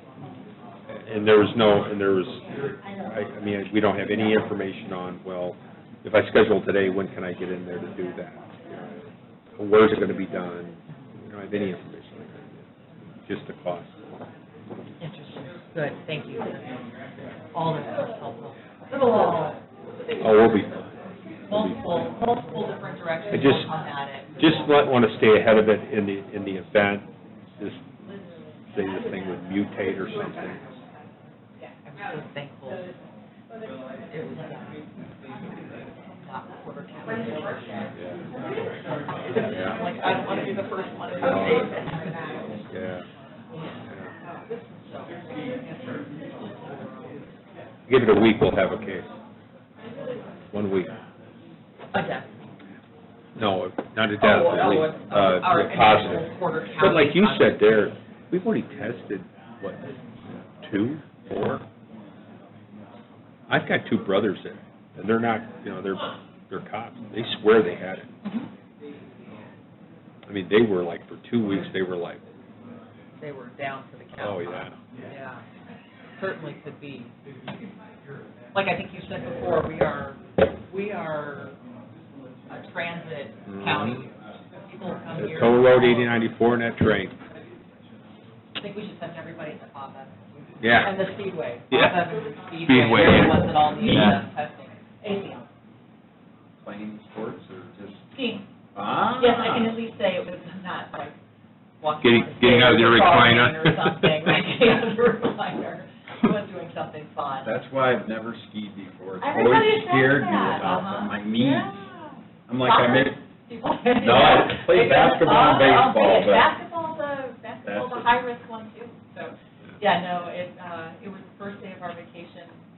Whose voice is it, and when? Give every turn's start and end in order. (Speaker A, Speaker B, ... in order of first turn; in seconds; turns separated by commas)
Speaker A: 0.9-8.9, Speaker A: 9.6-12.7, Speaker A: 13.3-13.9, Speaker B: 15.0-16.7, Speaker B: 17.2-19.6, Speaker A: 20.2-21.0, Speaker B: 21.5-24.8, Speaker A: 21.5-21.8, Speaker A: 23.3-23.7, Speaker A: 24.4-27.1, Speaker A: 28.7-30.6, Speaker B: 31.9-32.9, Speaker B: 34.1-34.9, Speaker B: 36.2-37.9, Speaker B: 39.1-42.7, Speaker A: 41.2-41.8, Speaker A: 42.7-43.0, Speaker B: 44.2-47.1, Speaker A: 47.9-49.1, Speaker A: 50.5-50.9, Speaker B: 51.9-52.3, Speaker A: 53.4-59.8, Speaker B: 54.2-57.8, Speaker A: 60.6-61.6, Speaker A: 63.5-68.1, Speaker B: 68.2-68.5, Speaker A: 70.3-72.2, Speaker B: 73.2-75.4, Speaker A: 74.2-74.8, Speaker B: 76.2-77.1, Speaker B: 78.5-81.6, Speaker B: 82.5-84.1, Speaker A: 83.5-84.0, Speaker B: 84.7-86.2, Speaker A: 85.2-87.2, Speaker B: 88.6-95.5, Speaker A: 90.6-90.9, Speaker A: 91.7-92.0, Speaker A: 92.7-93.5, Speaker C: 92.8-93.2, Speaker C: 93.9-94.2, Speaker C: 96.6-98.0, Speaker B: 98.1-98.5, Speaker C: 98.8-99.8, Speaker B: 99.2-101.2, Speaker B: 101.8-107.5, Speaker C: 102.0-103.5, Speaker A: 102.0-104.1, Speaker C: 107.4-111.8, Speaker B: 109.2-122.5, Speaker C: 112.5-113.2, Speaker C: 114.0-116.5, Speaker C: 117.7-118.1